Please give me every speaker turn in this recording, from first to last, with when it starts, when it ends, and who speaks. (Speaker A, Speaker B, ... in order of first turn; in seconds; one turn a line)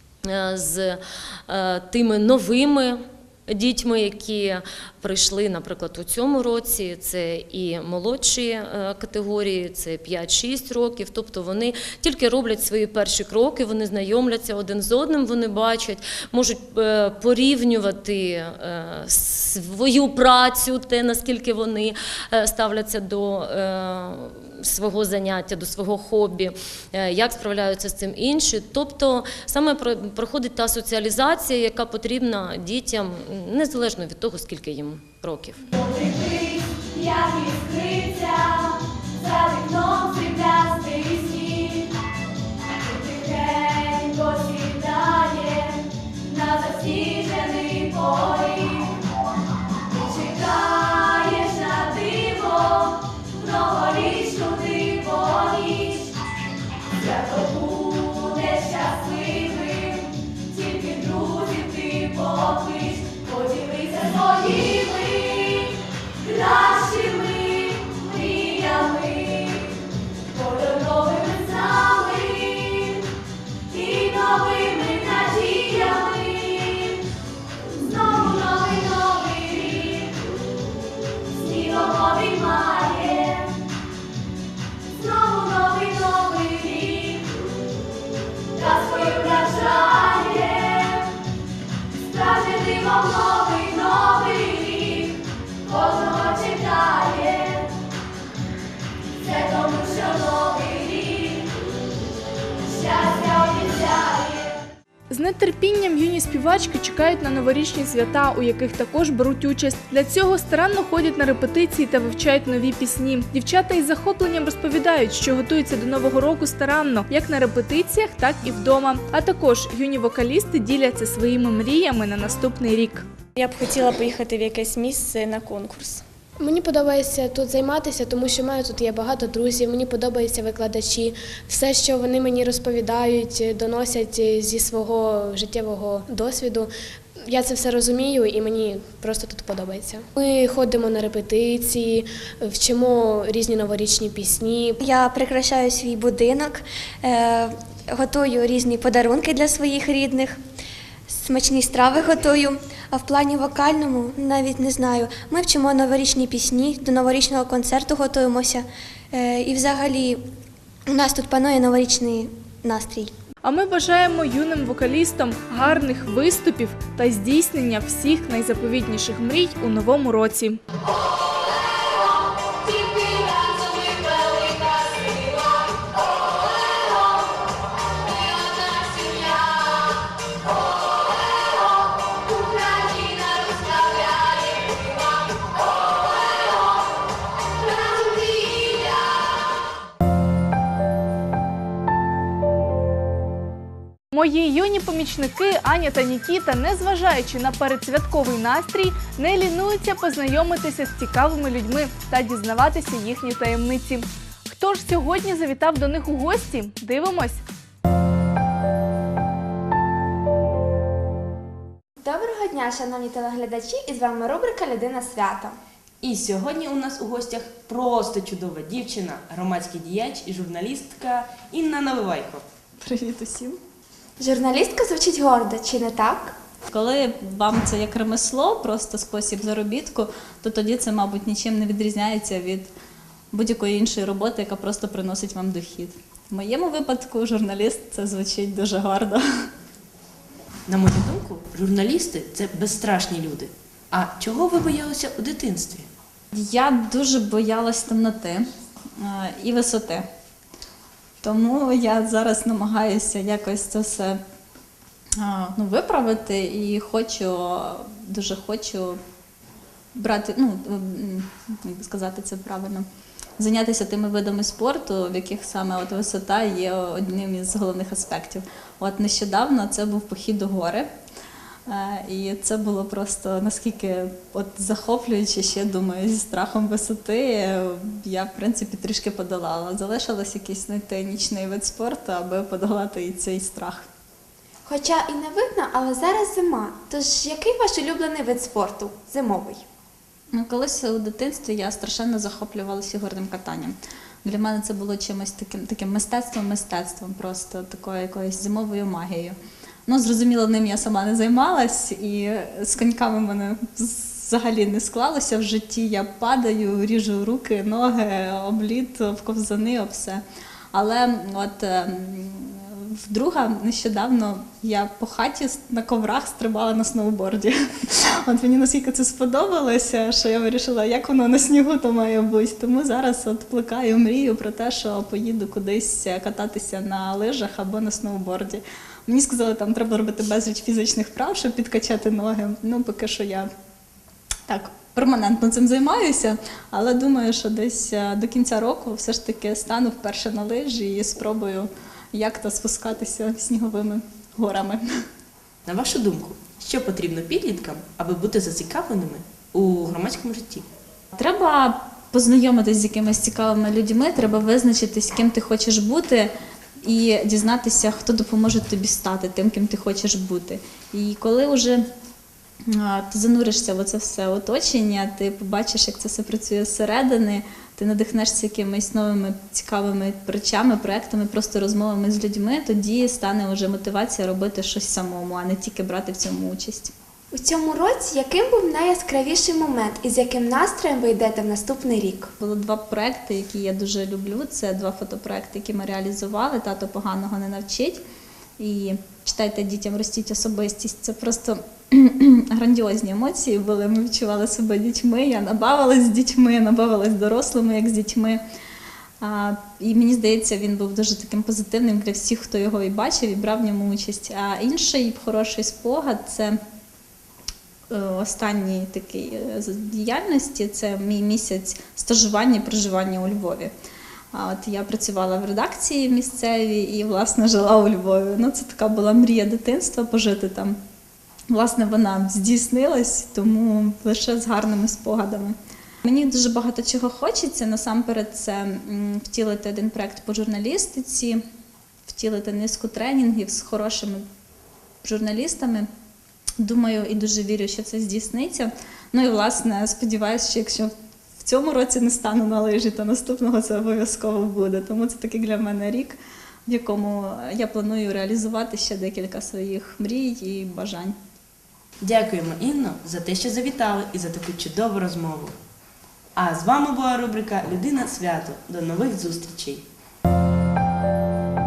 Speaker A: 0.3-35.6
Speaker B: 35.7-38.7
Speaker B: 39.2-40.8
Speaker C: 64.5-69.7
Speaker C: 70.3-73.0
Speaker C: 73.8-74.4
Speaker C: 74.9-77.0
Speaker C: 77.8-80.1
Speaker C: 81.4-81.8
Speaker C: 82.8-83.5
Speaker B: 89.0-89.6
Speaker B: 93.3-95.1
Speaker B: 95.8-97.2
Speaker B: 99.3-101.4
Speaker B: 102.8-104.5
Speaker D: 105.1-123.1
Speaker C: 123.4-126.0
Speaker E: 126.4-136.7
Speaker E: 137.2-144.8
Speaker F: 144.8-150.4
Speaker F: 151.1-160.2
Speaker F: 160.9-163.1
Speaker D: 163.4-170.6
Speaker C: 173.1-173.8
Speaker C: 178.6-179.5
Speaker C: 183.2-183.5
Speaker D: 194.1-207.4
Speaker B: 212.0-215.6
Speaker G: 216.0-222.4
Speaker H: 222.8-223.6
Speaker B: 224.2-226.3
Speaker H: 226.7-232.7
Speaker H: 233.3-239.2
Speaker G: 240.7-245.9
Speaker H: 246.3-248.4
Speaker H: 249.0-250.1
Speaker H: 251.2-254.2
Speaker H: 255.2-259.0
Speaker H: 260.0-262.9
Speaker H: 263.4-270.9
Speaker H: 271.7-283.9
Speaker B: 284.7-289.6
Speaker H: 290.3-333.5
Speaker H: 334.5-344.9
Speaker G: 345.7-350.6
Speaker H: 351.2-356.3
Speaker H: 356.8-361.9
Speaker H: 362.7-376.9
Speaker B: 377.3-382.3
Speaker H: 382.4-388.0
Speaker H: 388.6-398.4
Speaker H: 399.2-406.6
Speaker H: 407.9-413.7
Speaker H: 414.3-420.8
Speaker H: 421.5-431.4
Speaker H: 432.1-434.2
Speaker H: 435.0-435.9
Speaker H: 436.6-451.2
Speaker G: 452.0-455.6
Speaker G: 456.4-459.8